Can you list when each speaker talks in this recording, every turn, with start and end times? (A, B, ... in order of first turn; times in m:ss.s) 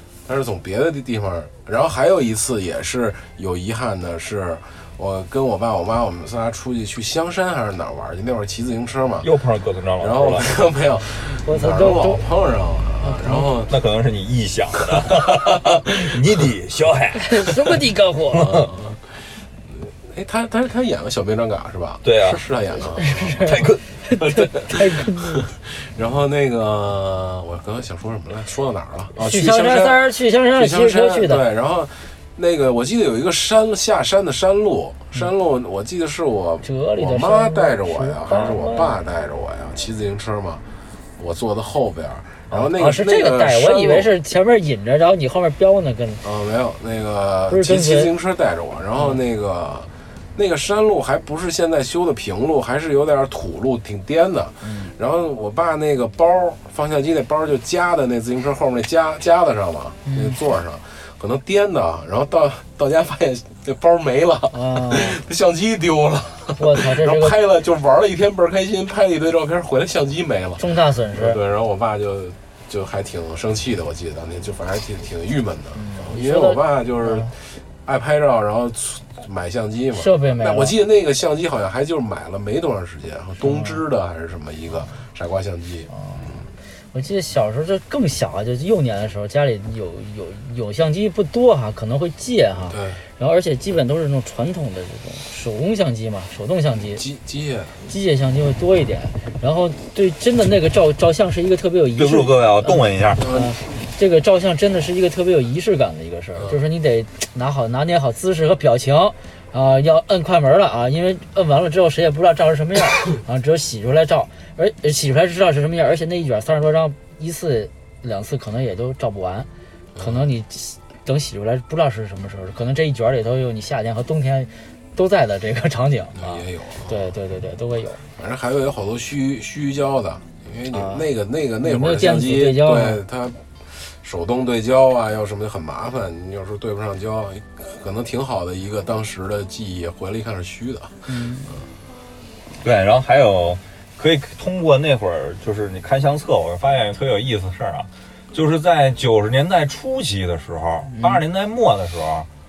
0:00.2-0:09.3 A
0:09.2-0:10.5 B
0:10.0-0:13.7 A
0:11.4-0:12.2 C
0:13.0-0:13.5 C
0:13.7-0:17.8 B
0:14.8-0:15.9 A
0:17.2-0:18.7 C
0:18.3-0:18.7 B
0:18.4-0:23.6 A
0:22.0-0:22.4 B
0:22.8-0:25.5 C
0:23.4-0:23.8 B
0:24.2-0:40.6 A
0:29.2-0:31.4 C
0:36.6-0:39.0 C
0:41.2-0:44.1 A
0:42.5-0:46.2 C
0:46.2-1:26.5 A
0:47.5-0:48.1 C
0:49.0-0:49.2 C
0:54.6-0:54.9 C
1:00.0-1:00.4 C
1:04.5-1:05.2 C
1:06.6-1:07.4 C
1:10.6-1:11.4 C
1:15.7-1:17.3 C
1:19.9-1:20.8 C
1:23.4-1:23.8 C
1:25.9-1:37.0 C
1:32.7-1:33.0 A
1:37.0-1:37.8 A
1:37.9-2:08.0 C
1:42.0-1:43.2 B
1:43.2-1:43.6 A
1:59.9-2:00.2 A
2:06.2-2:07.1 A
2:08.2-2:21.0 A
2:10.7-2:11.1 C
2:11.6-2:13.0 C
2:21.1-2:21.6 C
2:22.6-2:32.3 B
2:30.8-2:31.2 C